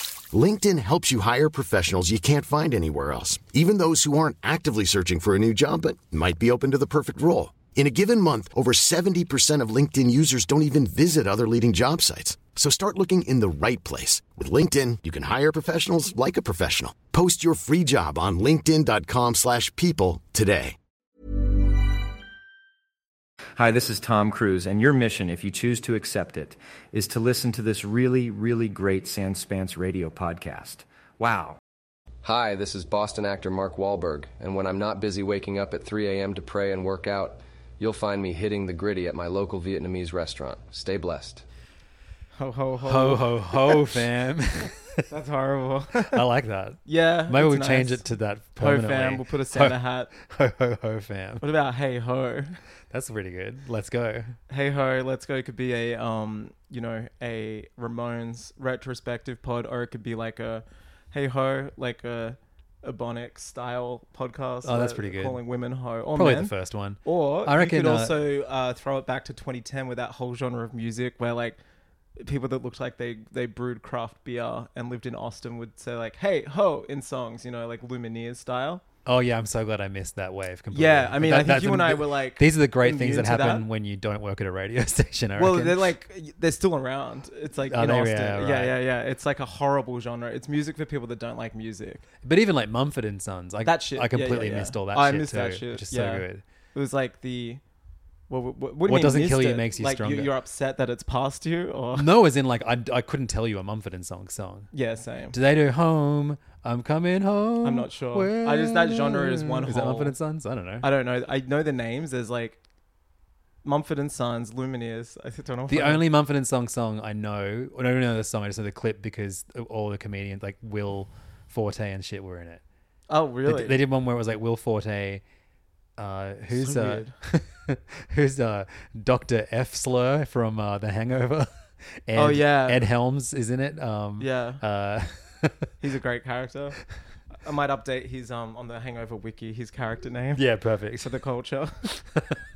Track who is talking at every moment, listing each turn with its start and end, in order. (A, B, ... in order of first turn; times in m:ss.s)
0:00.3-0:20.8 A
0:23.6-0:31.6 B
0:32.2-0:41.4 C
0:42.4-0:44.0 D
0:42.8-0:45.0 E
0:45.1-0:46.2 D
0:46.1-0:51.4 E
0:46.9-0:48.0 D
0:48.6-0:50.1 D
0:51.4-0:52.6 D
0:52.9-0:54.4 E
0:54.5-1:06.5 D
1:04.6-1:05.4 E
1:06.2-1:08.2 E
1:07.0-1:11.6 D
1:12.2-1:18.8 D
1:19.1-1:25.9 E
1:20.7-1:23.6 D
1:25.4-1:32.0 D
1:27.7-1:28.8 E
1:32.2-1:36.4 E
1:33.6-1:37.6 D
1:38.3-1:42.1 D
1:38.8-1:40.3 E
1:42.0-1:44.7 E
1:44.7-1:45.4 D
1:45.3-1:50.9 E
1:47.6-1:50.2 D
1:50.8-1:52.6 D
1:53.6-1:56.0 D
1:55.7-2:02.6 E
2:03.1-2:03.8 D
2:03.5-2:05.2 E
2:06.0-2:15.7 E
2:06.5-2:07.1 D
2:12.2-2:12.9 D
2:14.2-2:14.6 D
2:15.8-2:16.8 D
2:17.4-2:20.4 D
2:20.4-2:21.1 E
2:21.0-2:21.8 D
2:21.8-2:22.4 E